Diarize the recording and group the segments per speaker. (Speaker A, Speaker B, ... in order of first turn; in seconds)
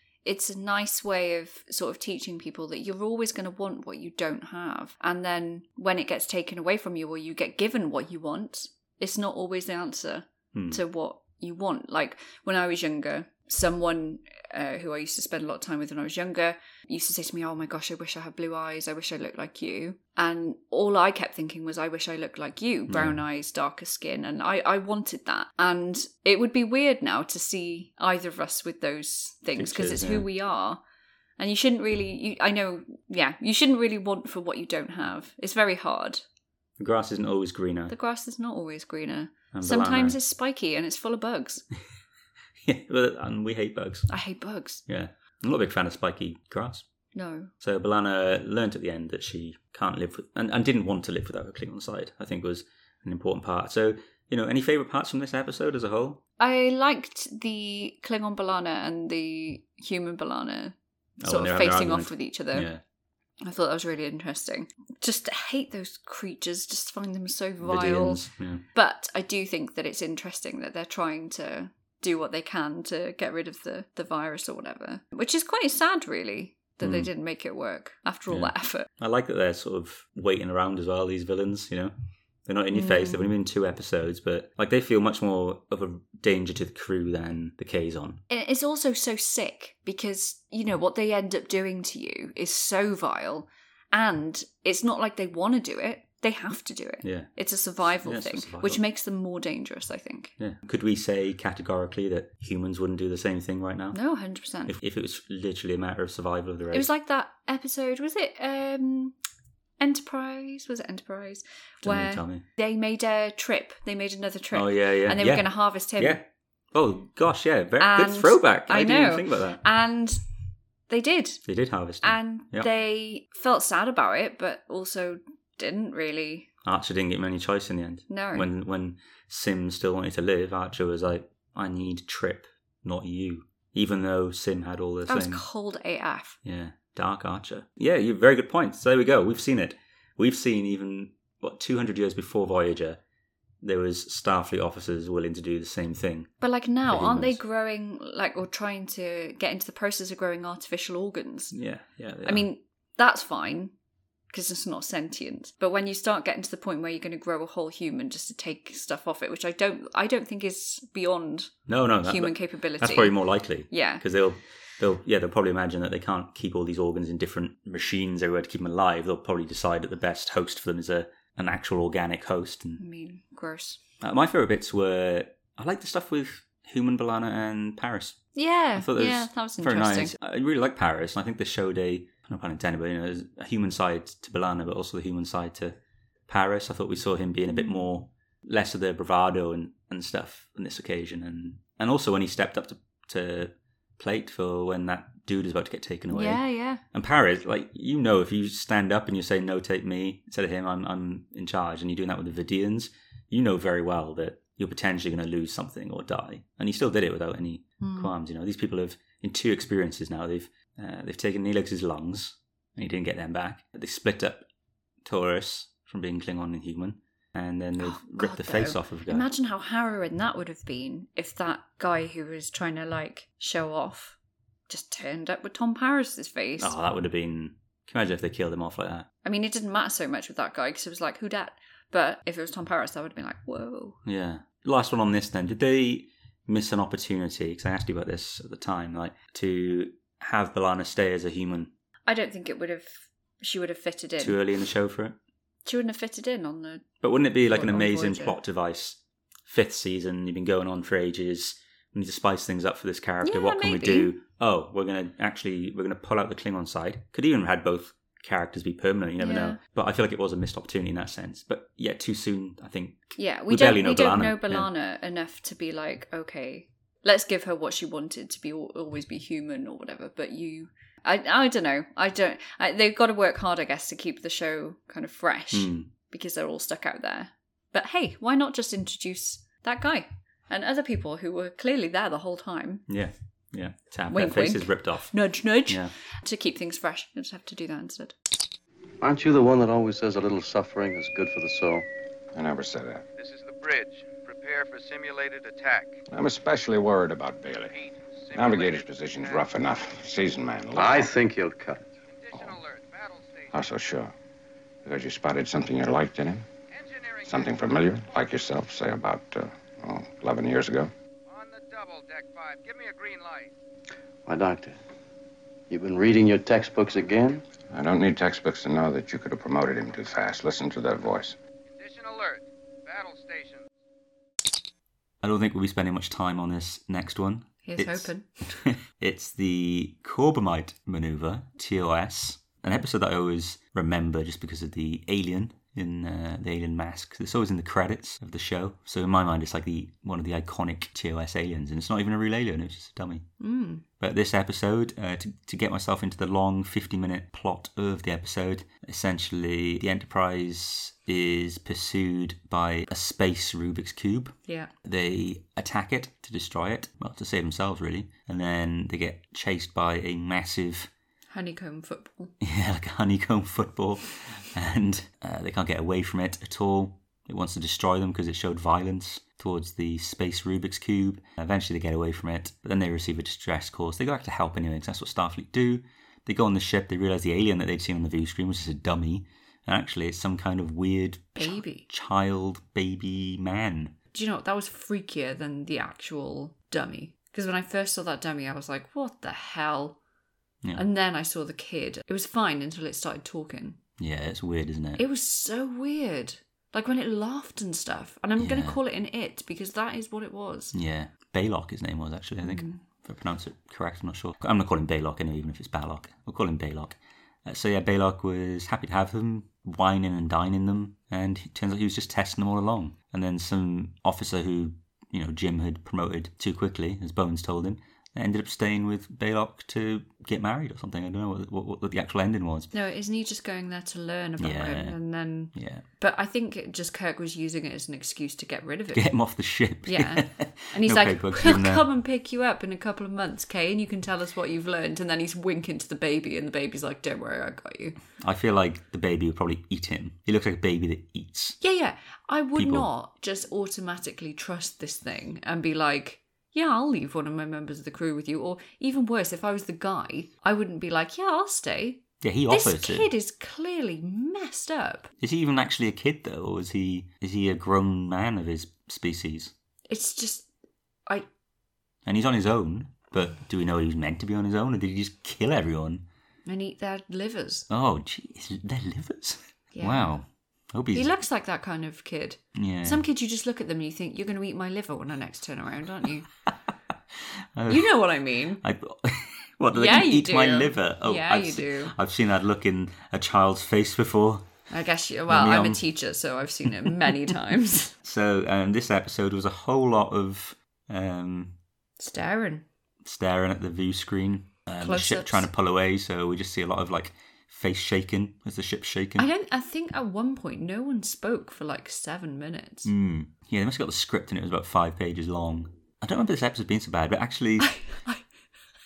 Speaker A: 0.2-30.8, 31.4-36.2, 37.9-41.6, 44.1-44.8, 47.1-47.5, 56.4-62.7, 63.4-78.9, 82.7-83.3, 88.3-100.3, 103.9-104.8, 106.7-109.2, 109.8-116.2, 117.8-120.2, 120.9-121.4, 122.0-126.5, 128.1-128.5, 135.1-136.4, 146.4-151.6, 152.2-153.7, 154.3-161.5, 162.0-163.2, 163.7-164.0, 172.8-173.8, 178.4-180.1, 187.5-187.8, 196.1-196.8, 207.8-208.1, 217.8-224.2, 224.7-226.8, 229.2-234.0, 242.1-244.4, 245.7-246.9, 247.4-248.4, 253.2-254.1, 259.2-259.6, 263.2-282.8, 284.1-288.1, 327.6-328.6, 343.4-343.8, 361.3-362.3, 381.4-381.9, 384.1-390.0, 390.8-393.8, 395.0-400.8, 402.4-402.8, 422.7-429.1, 429.9-438.0, 441.6-455.1, 459.9-460.5, 466.5-467.7, 469.8-470.2, 470.9-476.3, 477.7-478.6, 479.7-481.9, 484.7-487.9, 492.0-492.6, 494.8-495.5, 499.2-502.9, 507.6-508.2
Speaker B: 10.5-10.8, 22.9-23.2, 29.6-30.3, 36.8-37.9, 39.5-40.2, 42.6-44.1, 44.9-46.9, 47.6-56.2, 61.2-62.8, 67.6-68.6, 76.8-77.1, 78.3-81.9, 82.5-88.2, 97.0-97.3, 97.8-98.8, 100.4-104.0, 104.7-106.9, 111.8-112.5, 114.5-119.6, 121.5-122.7, 126.6-135.4, 136.4-143.0, 143.6-146.3, 146.9-147.4, 151.5-152.4, 161.7-172.8, 174.0-178.2, 178.8-185.8, 186.3-214.5, 215.0-219.3, 226.6-229.1, 234.1-241.7, 244.2-245.2, 247.0-264.7, 275.5-275.9, 282.9-285.1, 285.7-285.9, 325.2-343.3, 344.0-360.9, 362.4-383.9, 394.0-395.0, 398.4-398.8, 400.7-422.7, 424.4-425.0, 425.5-425.9, 428.9-431.8, 438.2-441.6, 442.6-442.9, 452.2-453.1, 455.2-459.5, 462.1-466.0, 467.7-471.1, 472.6-473.0, 477.6-478.0, 478.6-484.5, 485.3-485.8, 488.0-491.5, 493.0-499.3, 502.9-507.7
Speaker C: 289.0-291.9, 300.7-301.9, 314.2-314.8, 315.7-317.4
Speaker D: 292.3-293.1, 296.1-297.8, 298.4-301.1, 303.5-304.1, 304.9-306.4, 307.3-310.9, 317.7-321.4
Speaker E: 293.2-296.0, 297.5-299.5, 302.1-303.5, 306.7-307.6, 311.3-313.5, 321.7-323.7